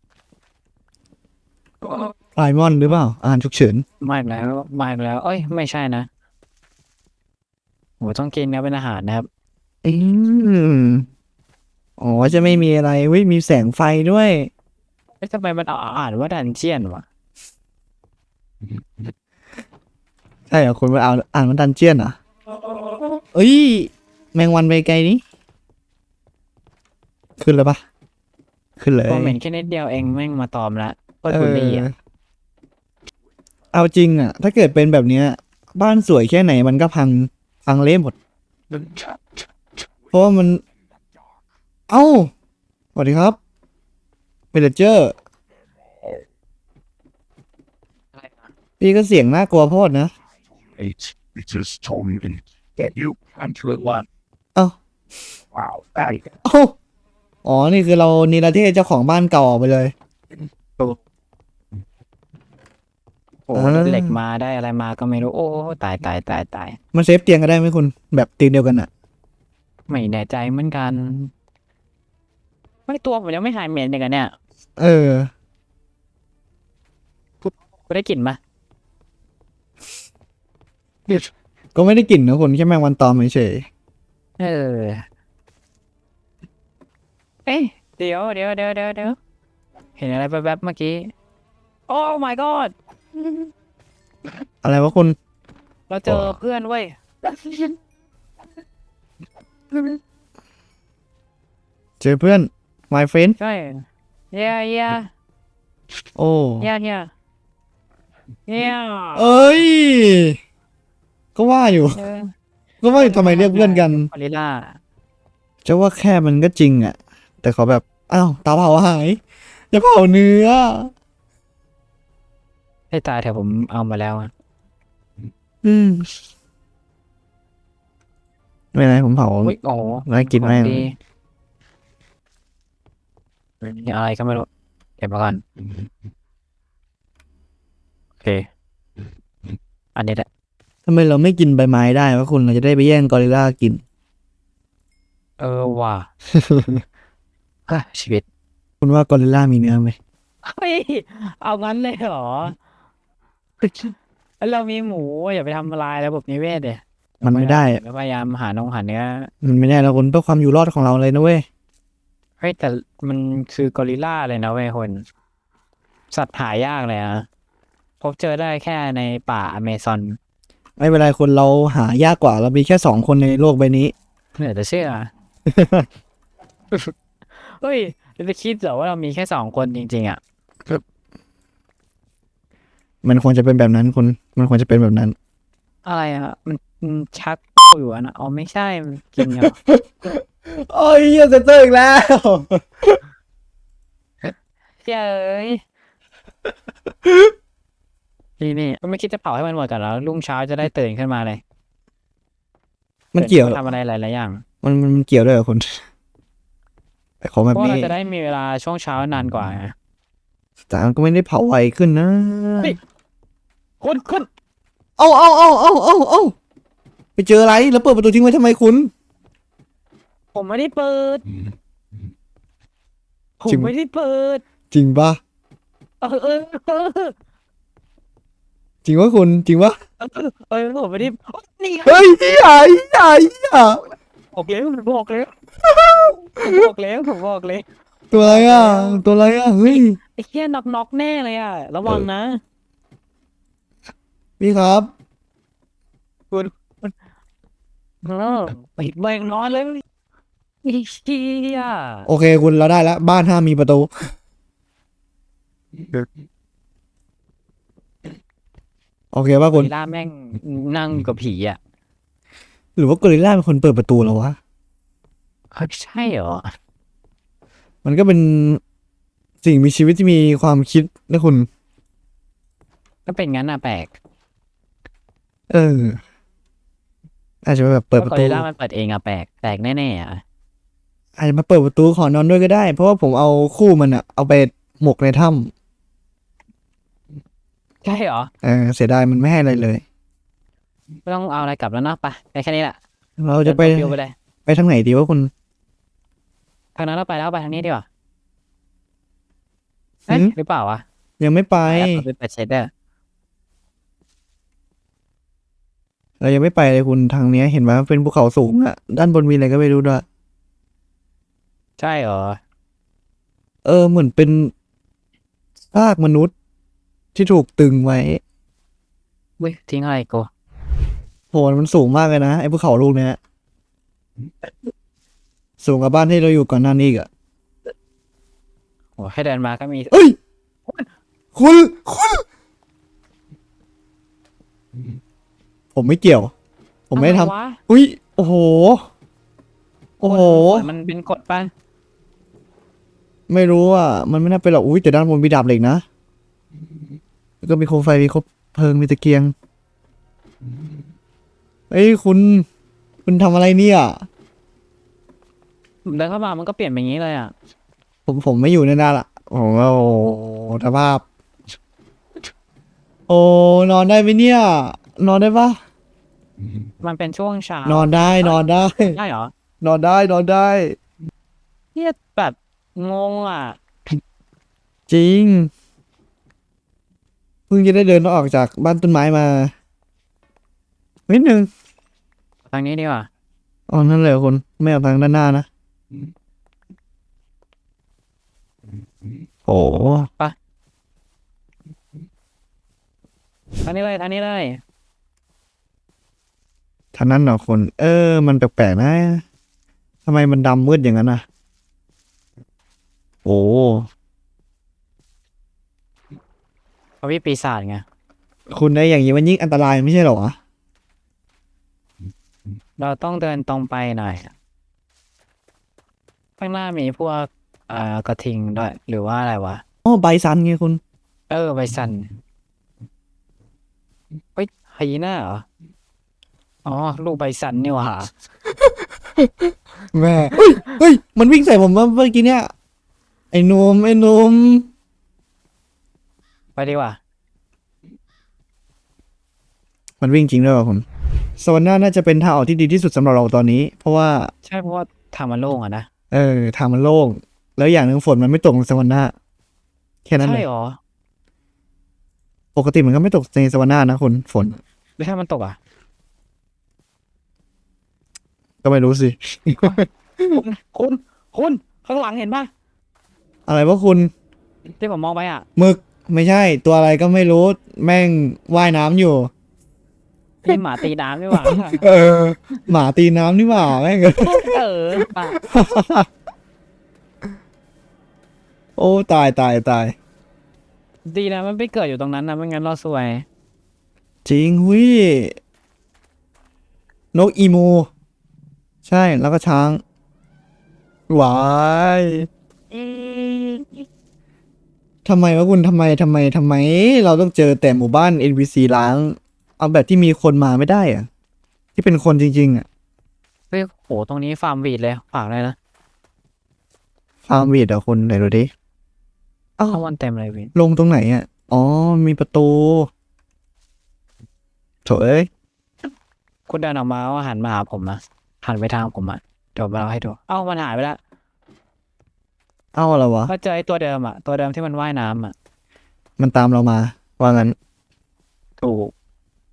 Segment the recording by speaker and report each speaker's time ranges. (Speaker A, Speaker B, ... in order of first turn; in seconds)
Speaker A: 1.8-2.1, 4.0-6.1, 8.0-9.3, 15.2-17.0, 29.1-31.9, 48.1-48.5, 63.5-66.8, 69.9-71.3, 72.9-74.3, 77.4-78.4, 84.4-85.0, 87.5-89.2, 90.0-91.1, 91.9-92.7, 95.9-97.7, 99.7-100.0, 103.4-105.1, 106.6-107.1, 108.5-109.5, 111.9-112.3, 113.0-114.8, 122.9-124.3, 129.4-130.9, 133.6-134.5, 135.0-135.4, 139.9-140.2, 145.4-146.1, 147.7-148.2, 150.4-152.6, 153.6-159.3, 162.4-165.1, 166.1-167.2, 168.0-170.2, 174.3-175.1, 176.7-180.2, 185.8-189.6, 194.2-195.6, 198.4-201.4, 203.2-204.4, 207.5-209.7, 213.8-214.3, 220.3-221.2, 223.4-224.4, 226.0-227.1, 230.0-232.1, 234.3-235.3, 236.3-239.0, 239.6-242.4, 246.3-246.9, 248.0-249.8, 250.6-252.1, 259.5-261.6, 265.5-266.5, 273.1-273.9, 277.9-280.2, 287.8-288.3, 291.1-292.8, 293.4-294.1, 296.8-297.9, 300.1-300.8, 301.6-302.7, 311.8-312.4, 319.4-320.3, 329.0-329.9, 336.9-337.6, 340.0-341.5, 355.8-357.3, 366.8-369.3, 371.7-374.0, 382.5-383.1, 393.6-394.6, 407.0-407.8, 412.8-414.3, 416.4-419.6, 421.3-422.1, 424.4-425.4, 426.6-428.1, 436.6-437.0, 444.4-445.9, 450.2-450.8, 455.0-455.6, 460.3-462.5, 464.8-465.4, 470.4-471.8, 474.2-475.4, 481.1-483.2, 492.7-493.9, 503.5-505.6, 509.7-510.5, 516.5-521.0, 523.3-525.3, 528.6-528.9
Speaker B: 2.3-3.8, 9.8-11.1, 12.0-14.5, 20.5-22.2, 23.3-25.2, 27.4-27.8, 28.8-29.4, 31.3-31.9, 33.7-38.1, 40.1-40.6, 41.9-42.3, 42.9-43.4, 44.5-45.1, 48.8-50.1, 56.4-56.7, 57.4-59.9, 63.5-64.2, 66.9-68.9, 74.8-75.3, 81.7-83.7, 94.6-95.2, 96.0-96.3, 102.0-103.4, 106.2-106.7, 109.1-110.4, 111.3-112.0, 112.8-114.1, 115.6-119.2, 119.7-120.9, 125.6-126.1, 128.7-129.5, 130.1-130.8, 140.8-143.8, 146.3-146.8, 148.8-150.0, 157.2-157.8, 159.4-161.4, 170.8-173.9, 175.5-175.8, 183.0-185.1, 189.6-193.0, 197.1-197.3, 203.1-203.6, 204.6-205.8, 207.2-207.9, 210.7-212.8, 215.0-216.3, 217.2-218.9, 223.5-223.7, 224.7-225.2, 228.8-229.7, 231.8-233.8, 235.6-236.6, 238.1-240.0, 244.4-244.9, 252.1-254.1, 259.1-259.7, 262.8-264.4, 267.8-268.6, 269.4-271.5, 275.5-276.0, 277.4-278.5, 281.2-285.5, 288.4-289.8, 293.2-293.9, 294.4-295.3, 300.1-300.3, 301.2-302.0, 306.2-310.0, 313.6-314.5, 315.7-316.3, 317.1-318.2, 321.3-323.2, 325.6-327.1, 329.9-330.1, 331.3-332.2, 335.7-336.3, 336.9-338.8, 340.0-340.7, 343.3-345.8, 347.4-349.3, 351.7-352.4, 353.0-354.0, 358.1-361.0, 363.1-365.6, 367.6-369.0, 369.6-370.8, 374.9-375.5, 377.5-379.5, 381.1-381.5, 383.7-385.5, 389.5-390.1, 396.9-399.2, 400.0-401.2, 403.2-403.9, 408.5-410.4, 419.8-420.8, 428.6-432.5, 433.3-434.7, 440.0-440.8, 441.4-444.3, 446.1-449.1, 450.1-450.4, 452.5-454.6, 458.6-460.4, 463.5-464.1, 465.6-469.3, 471.3-476.1, 478.8-479.9, 484.2-485.4, 487.1-487.9, 488.8-489.8, 491.1-492.3, 495.0-501.1, 501.7-502.6, 507.3-508.5, 510.5-512.9, 514.8-515.3, 522.7-523.3, 526.2-527.5
Speaker C: 50.8-54.0, 55.5-56.3